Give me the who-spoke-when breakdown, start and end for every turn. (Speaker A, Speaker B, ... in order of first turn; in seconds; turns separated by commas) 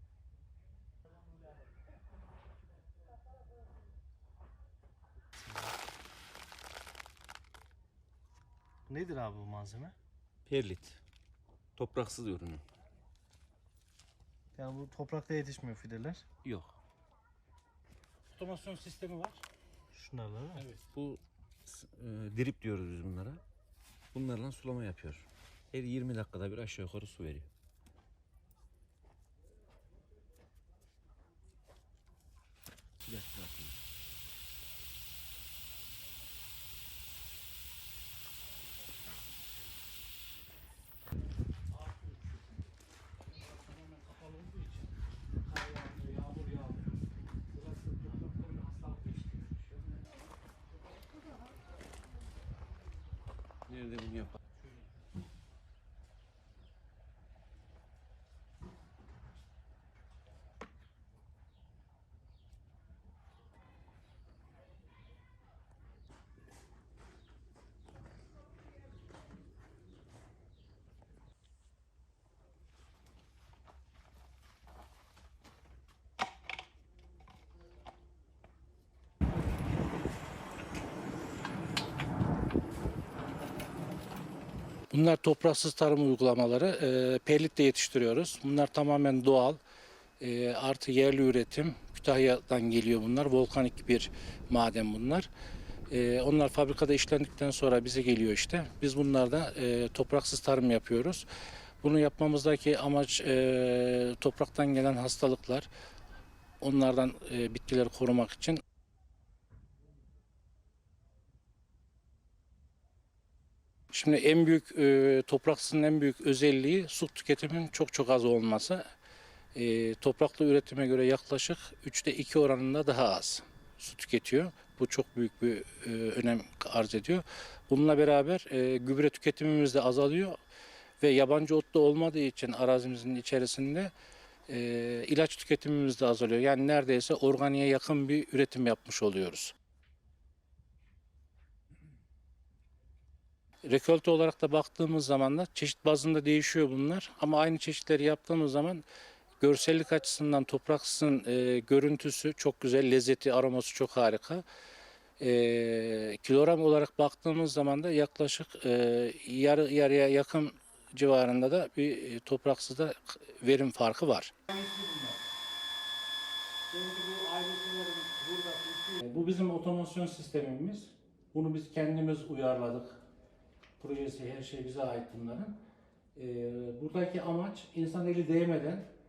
Speaker A: 5.4-5.7, Speaker A: 8.9-9.9, Speaker B: 10.5-11.0, Speaker B: 11.8-12.6, Speaker A: 14.6-16.2, Speaker B: 16.4-16.7, Speaker C: 18.3-19.4, Speaker A: 19.9-20.7, Speaker C: 20.6-20.8, Speaker B: 20.9-23.4, Speaker B: 24.1-27.5, Speaker B: 33.0-33.7, Speaker C: 46.2-46.7, Speaker B: 53.7-54.3, Speaker C: 84.9-89.6, Speaker C: 90.2-95.3, Speaker C: 95.9-101.2, Speaker C: 101.8-105.7, Speaker C: 106.6-108.6, Speaker C: 113.9-118.8, Speaker C: 119.5-130.4, Speaker C: 131.0-133.9, Speaker C: 134.5-139.5, Speaker C: 143.6-148.8, Speaker C: 149.4-154.4, Speaker C: 155.2-165.2, Speaker C: 166.7-173.0, Speaker C: 173.8-175.6, Speaker C: 176.1-178.8